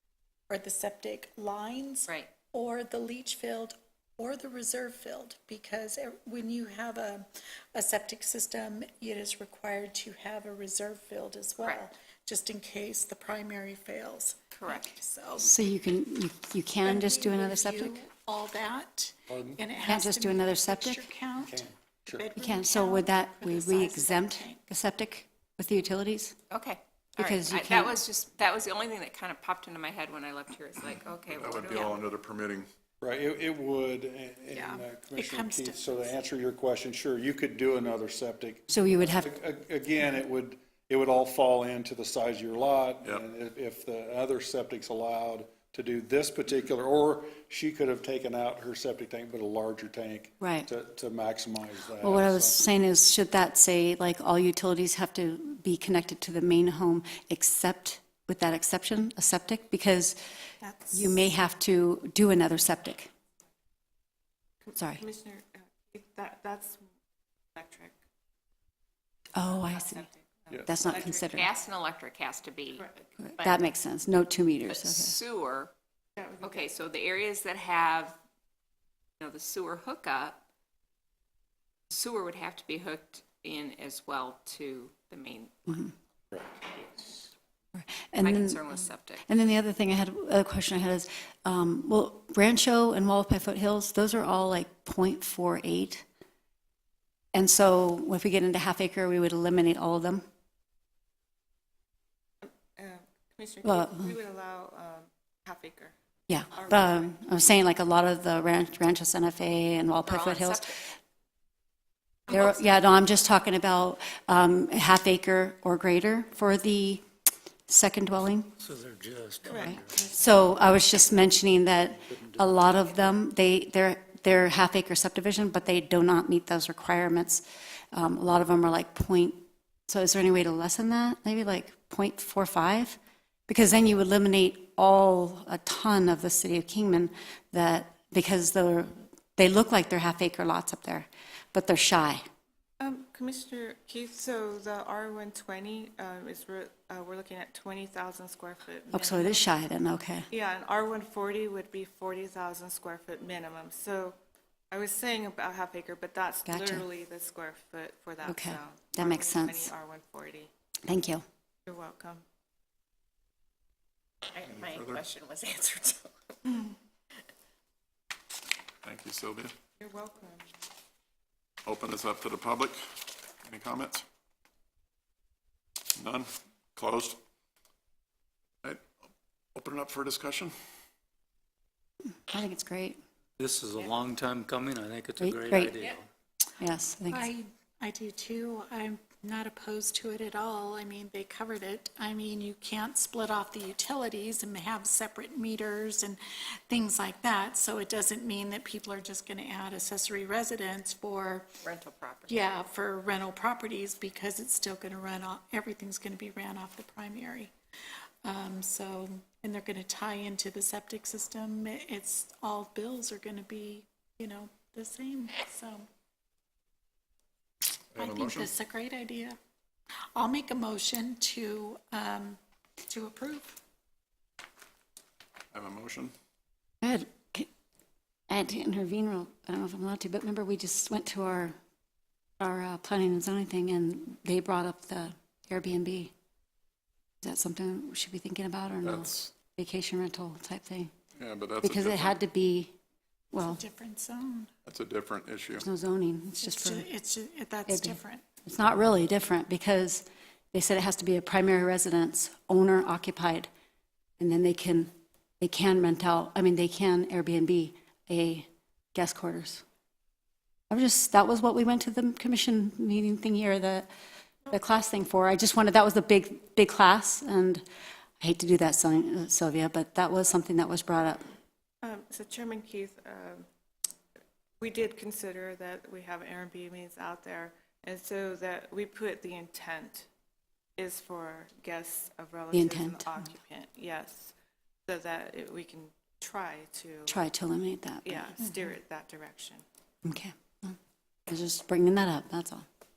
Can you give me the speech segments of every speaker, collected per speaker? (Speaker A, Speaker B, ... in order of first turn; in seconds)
Speaker A: 0.5-15.5, 16.8-24.6, 34.5-36.2, 60.6-61.0, 187.1-201.5, 202.3-207.5, 208.2-215.9, 218.0-219.4, 220.2-223.6, 243.3-244.5, 246.4-248.2
Speaker B: 14.6-14.8, 26.5-32.1, 71.3-73.5, 74.7-75.7, 76.4-78.2, 79.2-80.4, 81.9-85.9, 88.2-89.2, 110.0-110.8, 112.3-112.8, 164.3-166.3, 201.6-202.5
Speaker C: 15.4-18.0, 19.8-21.1, 22.4-26.4, 27.2-28.0, 38.7-39.4, 50.4-50.7, 52.0-60.2, 60.9-63.1, 64.8-65.0, 69.3-70.1, 70.7-71.5, 73.3-75.2, 87.7-96.0, 97.3-100.2, 103.6-104.1, 106.3-110.8, 112.3-117.0, 117.7-118.5, 119.5-142.2, 148.9-150.3, 156.5-156.9, 158.2-159.7, 160.8-161.2, 182.3-183.0, 185.2-185.8, 186.6-187.3, 226.8-227.5, 228.3-231.6, 232.4-236.1, 237.2-240.9, 241.6-242.7, 243.3-243.6, 245.6-246.9, 247.7-253.5, 254.2-254.9, 255.4-259.6, 260.7-263.9, 264.5-267.6, 268.2-271.3, 282.5-283.3, 287.1-288.3, 290.0-290.8, 291.3-292.7
Speaker D: 19.3-19.6, 21.4-22.3, 33.0-52.6
Speaker E: 31.3-32.7, 164.5-165.0, 168.8-169.6, 171.7-174.1, 176.0-177.2, 178.6-180.6, 217.9-218.5, 225.5-226.2, 238.8-239.2, 241.2-242.2, 244.7-245.7
Speaker F: 64.6-66.8, 67.5-68.0, 69.7-71.5, 76.2-76.8, 102.4-105.9, 106.5-107.1, 119.4-120.4, 142.8-149.5, 150.3-154.2, 154.7-160.5, 161.7-162.2, 166.4-166.8, 169.8-170.5, 271.8-273.5, 274.6-280.1, 280.8-284.4, 284.9-287.2, 288.0-289.6
Speaker G: 118.6-120.1, 183.4-186.1